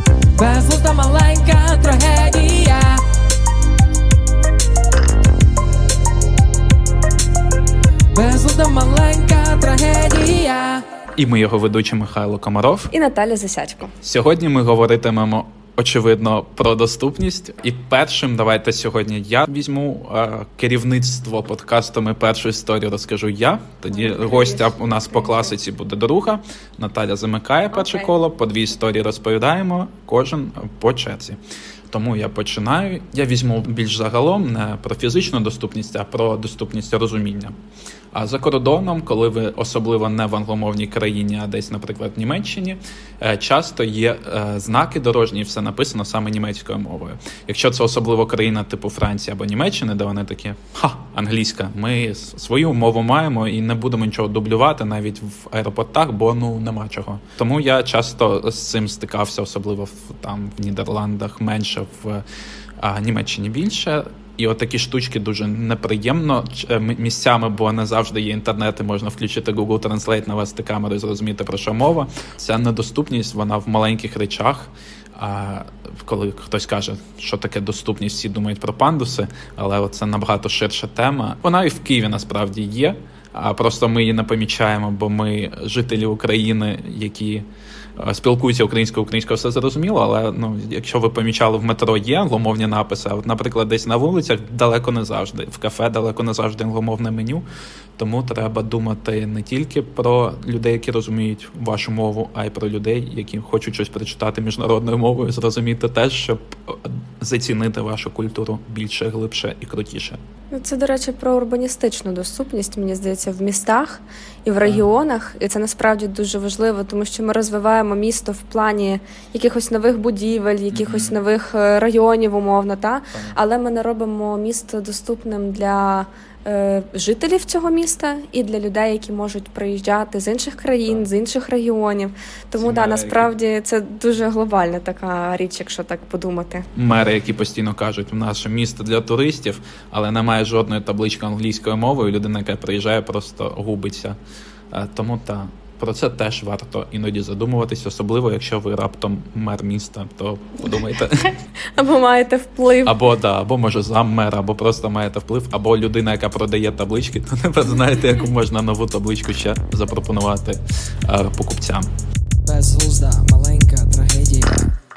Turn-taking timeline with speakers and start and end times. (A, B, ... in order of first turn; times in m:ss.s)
0:00.4-0:03.0 A
0:08.1-0:10.8 A
0:11.2-0:12.9 B
0:12.9-0:13.9 C
0:14.0-0:31.4 B
0:24.0-0:25.4 C
0:27.7-0:28.1 C
0:31.9-0:37.6 B
0:38.1-1:02.2 B
1:02.8-1:27.4 B
1:28.0-1:37.4 B
1:38.0-1:50.2 B
1:50.5-2:16.7 C
2:00.7-2:01.2 B
2:12.6-2:13.3 B
2:16.8-2:24.2 B
2:24.7-2:31.3 B
2:31.7-2:33.0 C
2:32.8-2:41.9 B
2:42.5-2:44.8 A